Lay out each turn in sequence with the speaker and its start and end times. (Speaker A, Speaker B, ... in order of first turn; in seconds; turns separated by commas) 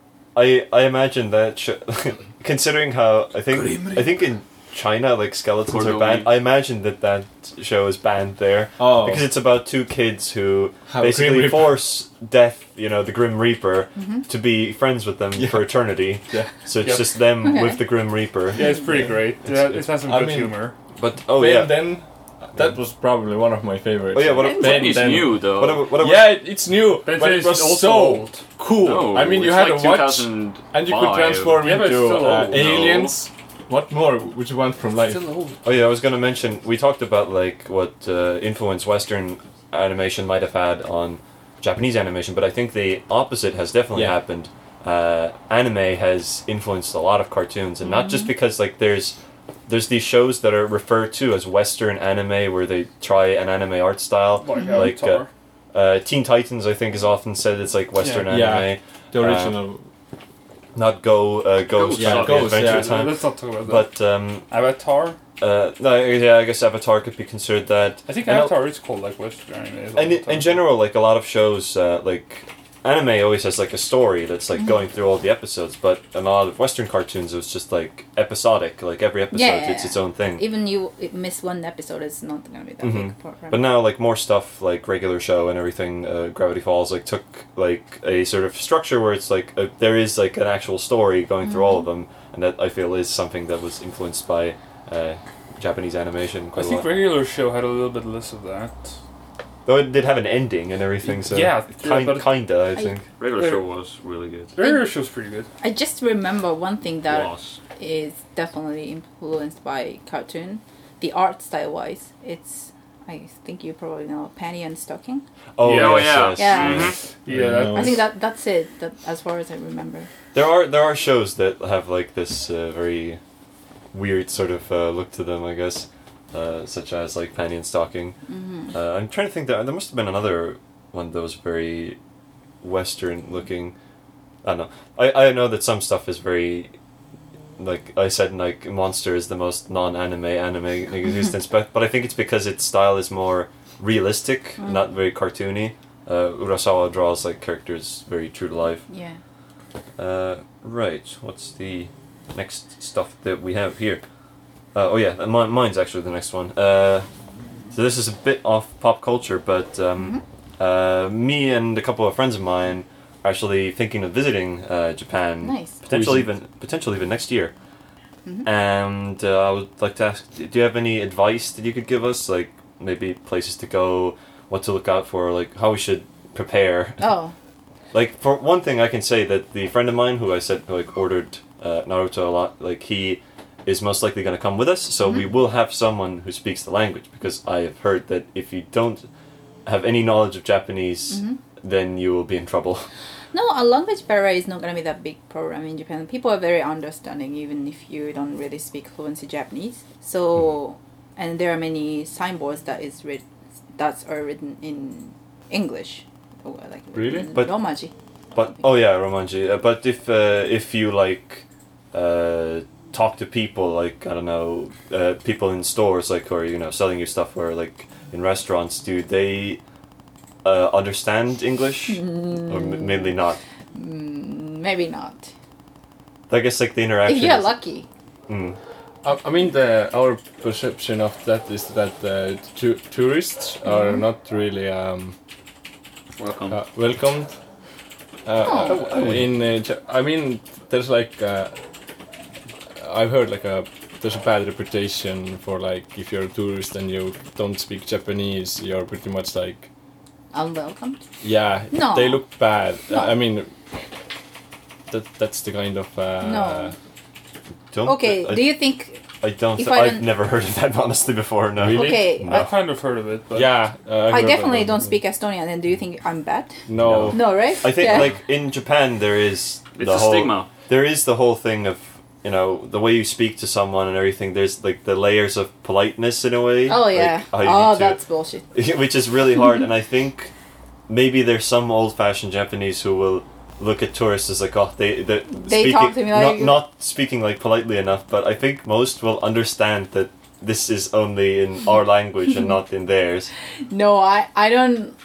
Speaker A: 0.3-18.7, Speaker B: 3.6-4.0, Speaker C: 5.7-6.3, Speaker D: 8.8-9.3, Speaker D: 10.9-11.9, Speaker E: 14.0-14.2, Speaker D: 15.3-15.7, Speaker B: 16.8-17.1, Speaker E: 17.4-17.8, Speaker B: 18.5-20.8, Speaker D: 18.9-20.6, Speaker A: 21.0-21.9, Speaker D: 21.4-35.3, Speaker A: 24.1-26.4, Speaker C: 24.3-25.9, Speaker B: 27.0-28.5, Speaker C: 28.8-31.7, Speaker B: 31.6-33.0, Speaker C: 32.5-33.1, Speaker B: 35.0-35.6, Speaker A: 35.6-49.2, Speaker D: 43.9-44.2, Speaker E: 47.8-48.3, Speaker A: 49.7-59.6, Speaker B: 54.4-55.3, Speaker E: 54.5-54.9, Speaker B: 58.0-58.4, Speaker D: 58.2-59.9, Speaker A: 60.8-64.5, Speaker C: 61.7-62.6, Speaker D: 62.0-63.1, Speaker B: 62.2-63.9, Speaker B: 64.5-65.2, Speaker A: 65.4-68.5, Speaker B: 68.1-70.6, Speaker A: 70.0-80.5, Speaker E: 79.3-83.7, Speaker A: 82.8-96.9, Speaker E: 91.4-91.9, Speaker B: 96.5-98.9, Speaker A: 99.7-103.1, Speaker B: 101.0-102.4, Speaker C: 103.2-104.5, Speaker B: 103.3-103.6, Speaker B: 104.5-105.5, Speaker E: 104.6-104.9, Speaker E: 105.6-115.2, Speaker C: 107.1-107.6, Speaker A: 115.6-117.0, Speaker C: 115.6-117.0, Speaker B: 115.7-116.1, Speaker E: 116.4-116.9, Speaker B: 117.3-118.0, Speaker D: 117.3-118.0, Speaker E: 117.7-120.1, Speaker A: 120.3-123.2, Speaker A: 123.9-128.2, Speaker E: 128.3-128.7, Speaker A: 128.7-132.0, Speaker A: 132.6-133.8, Speaker A: 134.4-136.7, Speaker A: 137.6-148.9, Speaker E: 144.6-144.9, Speaker E: 148.9-149.2, Speaker A: 150.0-154.0, Speaker A: 154.7-157.1, Speaker A: 157.7-167.5, Speaker E: 160.0-160.2, Speaker E: 165.4-165.8, Speaker D: 165.9-166.3, Speaker A: 168.4-177.1, Speaker E: 177.0-177.3, Speaker A: 177.9-189.1, Speaker A: 189.7-192.9, Speaker E: 191.1-191.4, Speaker E: 193.3-203.2, Speaker E: 203.8-207.9, Speaker D: 206.9-207.3, Speaker A: 207.3-207.6, Speaker A: 208.3-219.6, Speaker A: 220.4-223.4, Speaker E: 221.9-223.2, Speaker E: 223.8-225.3, Speaker A: 226.3-227.6, Speaker E: 227.1-227.9, Speaker A: 228.3-228.6, Speaker D: 229.0-235.2, Speaker E: 233.7-234.0, Speaker C: 236.2-236.6, Speaker D: 236.5-237.4, Speaker D: 238.2-241.6, Speaker E: 238.4-238.8, Speaker A: 238.6-239.3, Speaker D: 242.8-249.7, Speaker E: 250.3-251.0, Speaker D: 251.2-253.5, Speaker E: 251.7-252.2, Speaker E: 252.9-253.2, Speaker D: 254.9-256.8, Speaker E: 256.2-256.8, Speaker A: 257.7-258.7, Speaker E: 257.8-259.0, Speaker A: 259.2-262.5, Speaker E: 259.6-260.1, Speaker D: 261.6-262.2, Speaker E: 261.7-262.5, Speaker B: 262.2-263.6, Speaker D: 263.3-265.0, Speaker E: 264.1-266.6, Speaker D: 266.7-267.3, Speaker A: 266.8-278.0, Speaker E: 267.1-268.1, Speaker C: 269.8-270.5, Speaker E: 276.7-278.4, Speaker A: 278.5-280.3, Speaker A: 280.9-293.3, Speaker E: 285.3-286.7, Speaker E: 293.7-295.0